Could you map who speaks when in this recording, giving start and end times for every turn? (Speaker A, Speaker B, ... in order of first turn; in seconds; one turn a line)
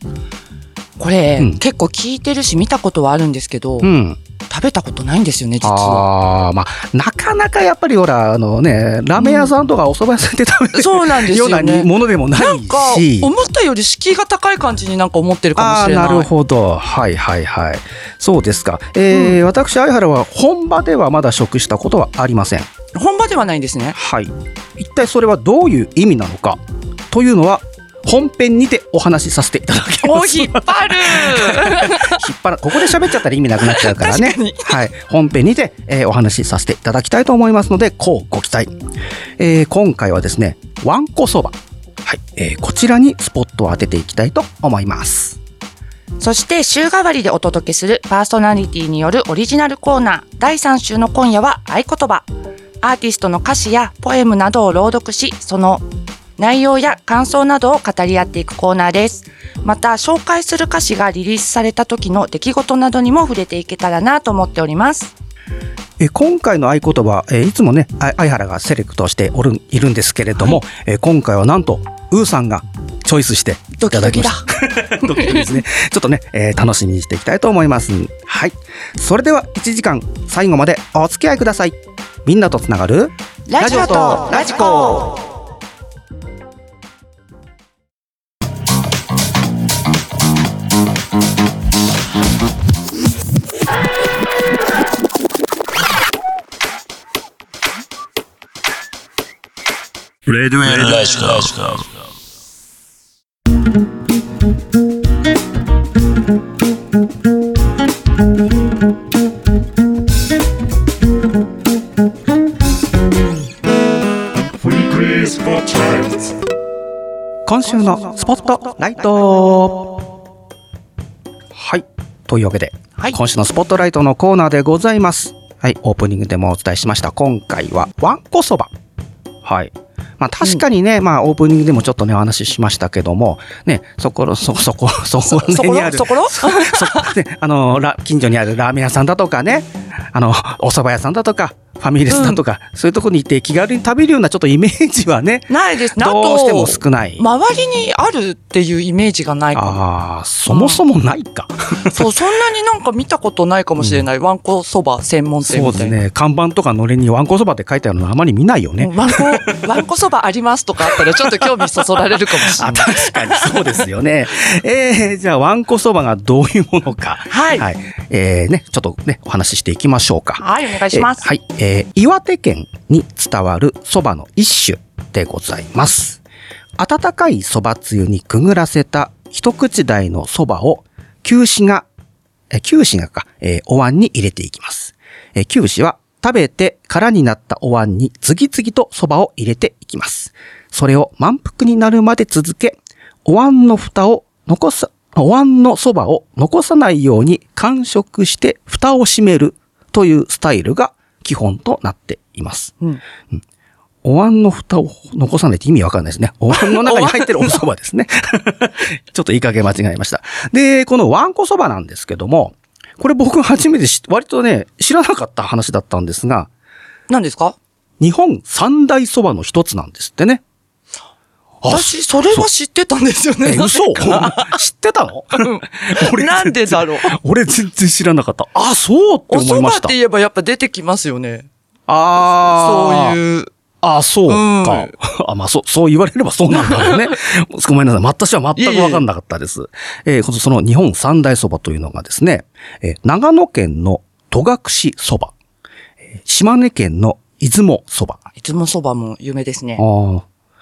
Speaker A: 1.0-3.9
Speaker B: 3.8-4.2
Speaker A: 4.5-6.0
Speaker B: 5.6-13.3
Speaker A: 9.2-9.5
Speaker A: 10.7-16.3
Speaker B: 15.6-22.7
Speaker A: 19.1-19.4
Speaker A: 22.9-24.0
Speaker B: 23.9-26.6
Speaker B: 27.1-38.7
Speaker A: 30.0-32.2
Speaker A: 33.6-34.8
Speaker B: 39.4-45.4
Speaker A: 46.2-52.2
Speaker A: 52.8-55.8
Speaker A: 56.4-65.1
Speaker B: 66.0-85.1
Speaker A: 73.8-74.4
Speaker A: 75.1-75.5
Speaker A: 83.5-85.1
Speaker C: 100.2-102.0
Speaker C: 115.1-115.3
Speaker B: 117.5-120.0
Speaker B: 121.5-128.7
Speaker B: 129.4-147.2
Speaker A: 135.2-137.1
Speaker A: 142.1-142.4
Speaker A: 145.5-149.8
Speaker B: 149.5-152.1
Speaker A: 150.5-150.8
Speaker A: 151.9-155.9
Speaker B: 153.8-154.0
Speaker B: 155.5-159.5
Speaker A: 158.8-163.8
Speaker B: 161.2-176.2
Speaker A: 167.3-167.7
Speaker A: 170.4-171.3
Speaker B: 176.8-181.8
Speaker B: 182.5-202.7
Speaker B: 204.0-216.5
Speaker A: 206.5-207.6
Speaker A: 217.1-217.6
Speaker B: 218.0-220.4
Speaker B: 221.6-222.5
Speaker A: 221.7-224.6
Speaker B: 223.4-229.9
Speaker A: 225.3-227.1
Speaker A: 229.3-231.5
Speaker B: 231.9-233.2
Speaker A: 232.2-233.5
Speaker B: 233.8-245.3
Speaker A: 234.3-234.9
Speaker A: 236.5-237.1
Speaker A: 238.6-239.0
Speaker B: 246.2-248.2
Speaker A: 248.3-249.8
Speaker B: 249.8-250.2